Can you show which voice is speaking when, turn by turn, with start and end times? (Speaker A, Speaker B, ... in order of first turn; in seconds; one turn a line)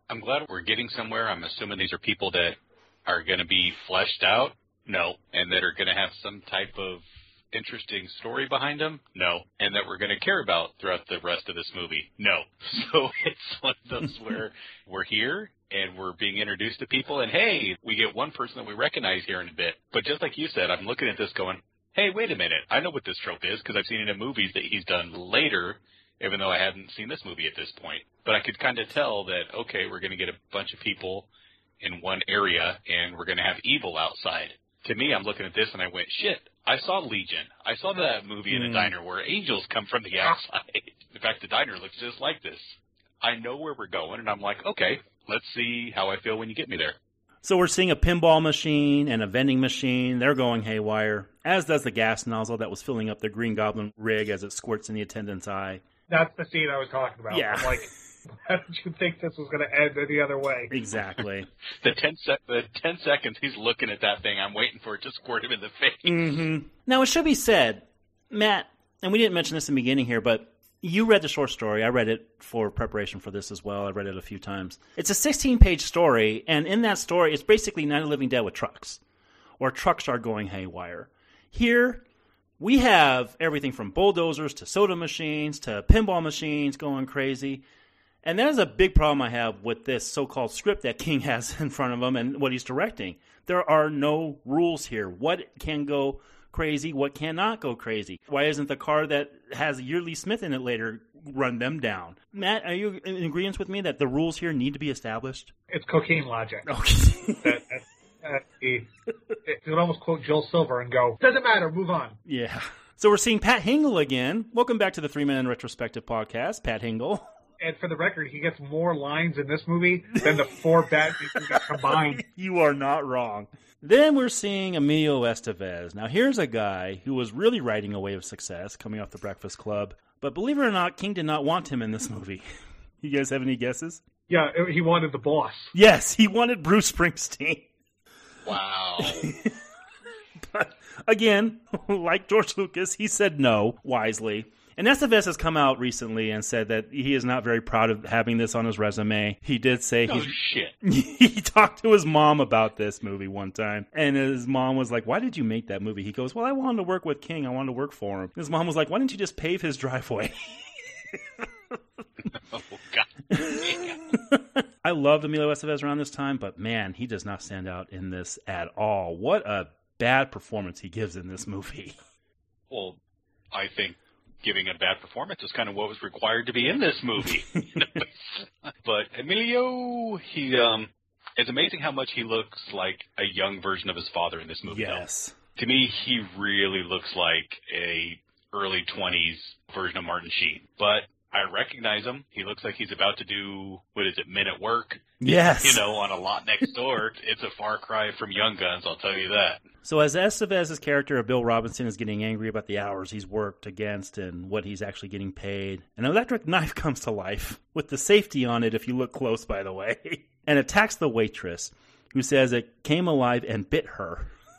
Speaker A: 0.1-31.3
Speaker A: 31.8-47.0
Speaker B: 38.5-38.9
Speaker B: 47.4-55.8
Speaker C: 56.1-57.9
Speaker B: 57.3-57.9
Speaker C: 58.4-60.7
Speaker B: 60.7-61.5
Speaker A: 61.8-66.2
Speaker B: 66.0-79.0
Speaker B: 79.6-82.0
Speaker B: 82.6-87.6
Speaker B: 88.2-105.5
Speaker C: 105.7-106.7
Speaker B: 106.7-107.6
Speaker C: 107.4-108.9
Speaker C: 109.4-112.2
Speaker B: 112.2-117.3
Speaker C: 117.6-122.2
Speaker B: 120.1-120.5
Speaker B: 121.3-132.4
Speaker B: 133.0-134.0
Speaker C: 134.3-135.7
Speaker B: 135.7-137.7
Speaker A: 138.4-139.3
Speaker B: 139.0-139.6
Speaker B: 140.4-160.6
Speaker A: 150.1-150.7
Speaker B: 161.1-161.5
Speaker A: 162.3-164.0
Speaker B: 163.3-172.0
Speaker A: 172.7-173.0
Speaker A: 173.5-185.0
Speaker B: 177.2-178.0
Speaker B: 184.7-185.3
Speaker A: 185.6-199.6
Speaker B: 195.2-195.8
Speaker B: 199.8-214.3